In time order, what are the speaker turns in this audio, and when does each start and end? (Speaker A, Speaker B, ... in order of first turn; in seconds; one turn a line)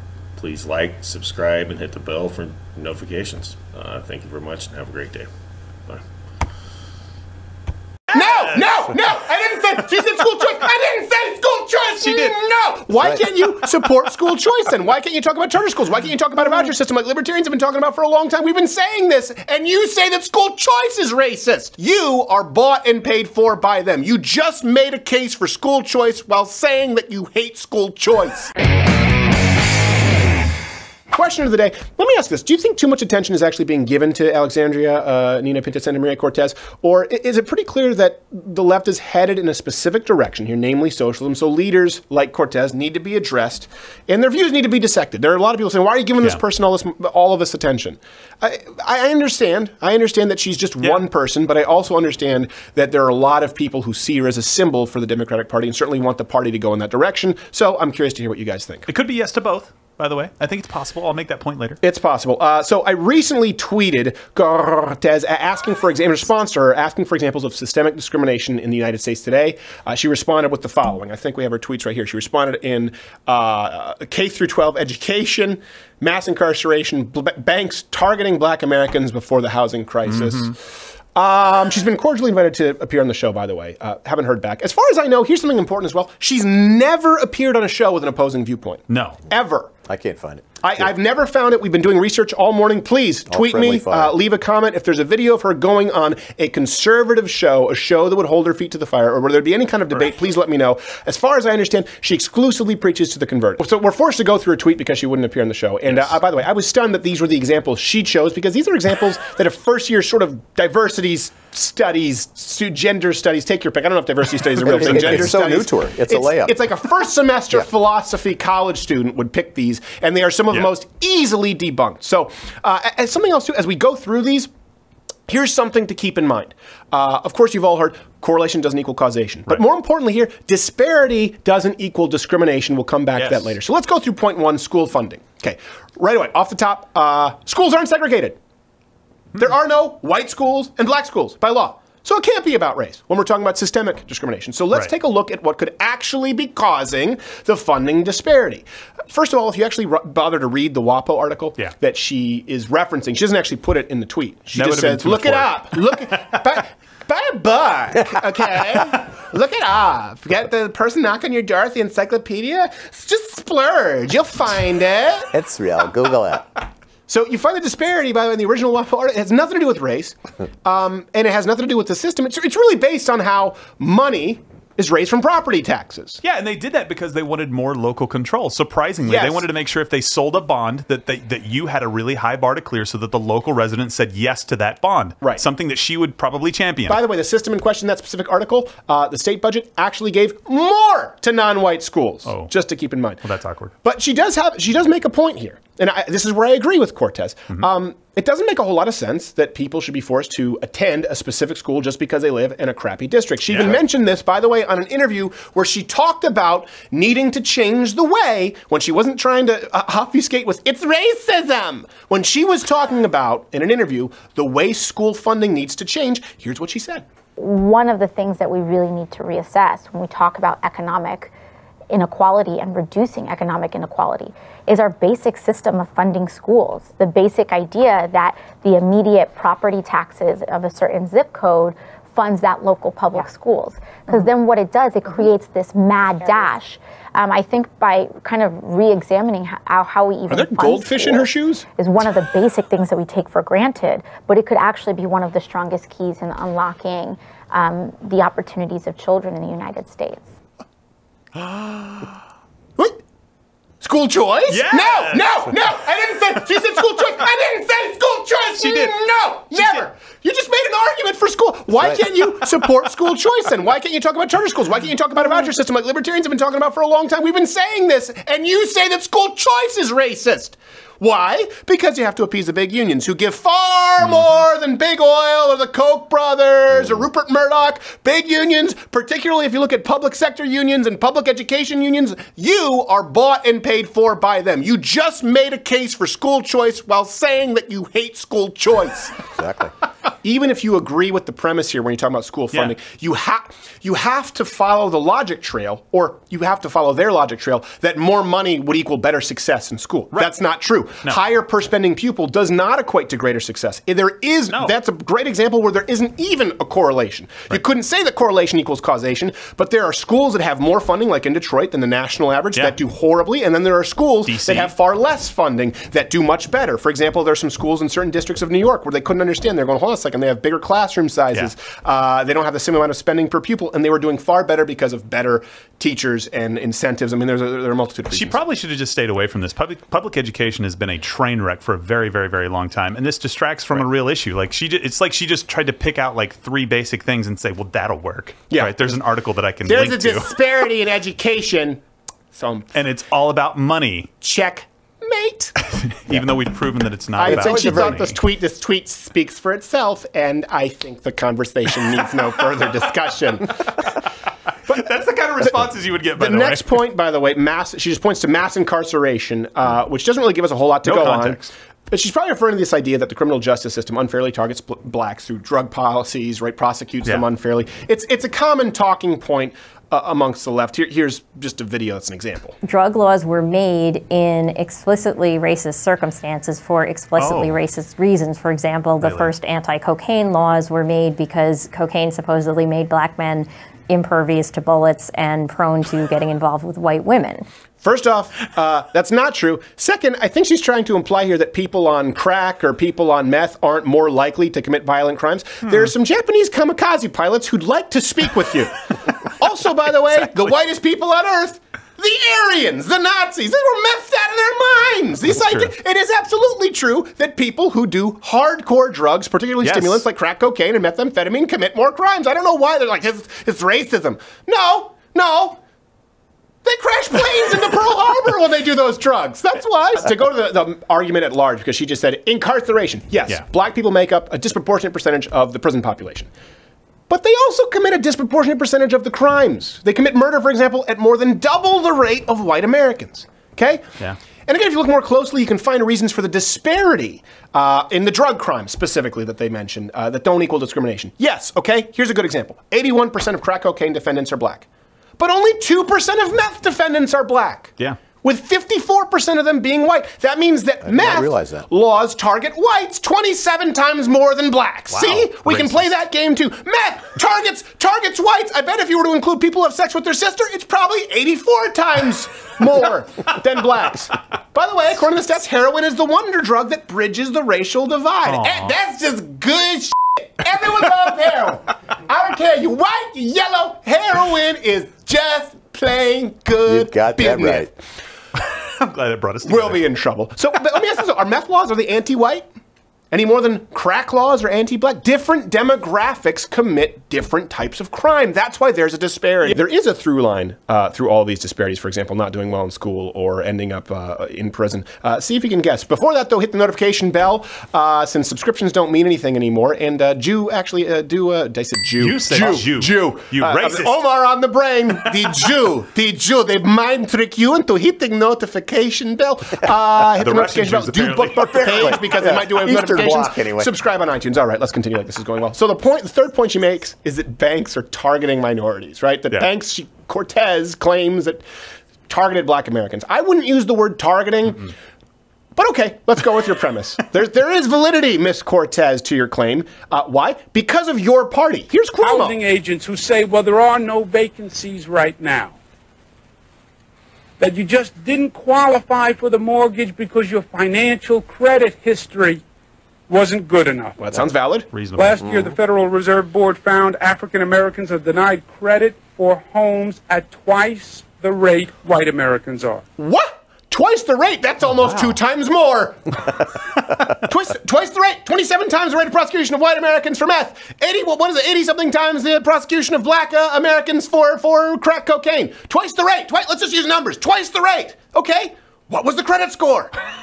Speaker A: 0.3-5.3
Speaker B: 8.1-8.5
Speaker C: 8.1-28.5
Speaker B: 12.0-12.3
Speaker C: 31.1-58.9
Speaker B: 58.9-61.8
Speaker C: 61.8-80.5
Speaker B: 80.1-80.5
Speaker C: 81.1-89.7
Speaker B: 88.9-89.2
Speaker D: 89.9-90.8
Speaker C: 90.6-124.5
Speaker D: 93.3-94.2
Speaker D: 114.6-116.6
Speaker C: 125.3-138.4
Speaker B: 133.2-133.5
Speaker C: 139.3-165.3
Speaker B: 154.5-155.6
Speaker D: 165.3-166.6
Speaker C: 167.1-176.2
Speaker B: 176.2-187.0
Speaker C: 179.1-179.5
Speaker C: 186.9-193.2
Speaker B: 192.2-192.5
Speaker B: 193.2-193.7
Speaker C: 193.8-217.0
Speaker B: 203.5-203.8
Speaker E: 217.4-221.3
Speaker E: 221.9-250.3
Speaker C: 240.3-241.7
Speaker B: 251.4-252.1
Speaker C: 253.8-289.2
Speaker B: 254.5-255.3
Speaker B: 258.6-258.9
Speaker B: 259.5-259.9
Speaker D: 289.4-289.7
Speaker C: 290.2-328.4
Speaker B: 314.2-314.7
Speaker B: 328.1-340.3
Speaker C: 338.5-338.8
Speaker C: 339.6-342.8
Speaker B: 342.7-344.1
Speaker C: 344.2-345.5
Speaker B: 345.7-348.1
Speaker C: 347.1-353.7
Speaker D: 347.3-348.0
Speaker B: 353.7-354.1
Speaker B: 354.6-356.7
Speaker C: 356.1-372.5
Speaker B: 360.8-361.5
Speaker F: 372.6-387.4
Speaker B: 377.2-377.6
Speaker B: 379.0-379.3
Speaker C: 387.8-398.7
Speaker C: 399.2-415.6
Speaker B: 405.3-405.7
Speaker B: 409.6-410.0
Speaker C: 416.6-426.3
Speaker C: 427.1-433.9
Speaker C: 434.5-444.6
Speaker C: 445.2-477.7
Speaker D: 450.8-451.6
Speaker B: 454.9-455.9
Speaker B: 468.2-468.7
Speaker D: 476.6-477.7
Speaker B: 478.4-479.8
Speaker C: 479.4-482.4
Speaker C: 483.1-521.4
Speaker B: 502.0-504.0
Speaker B: 510.2-512.1
Speaker D: 511.6-513.7
Speaker C: 522.1-524.7
Speaker C: 525.5-532.4
Speaker G: 532.0-535.5
Speaker G: 537.4-542.4
Speaker G: 543.1-544.0
Speaker C: 544.0-544.7
Speaker B: 544.7-545.2
Speaker G: 544.9-552.8
Speaker C: 553.0-556.4
Speaker B: 554.7-555.2
Speaker C: 557.0-569.9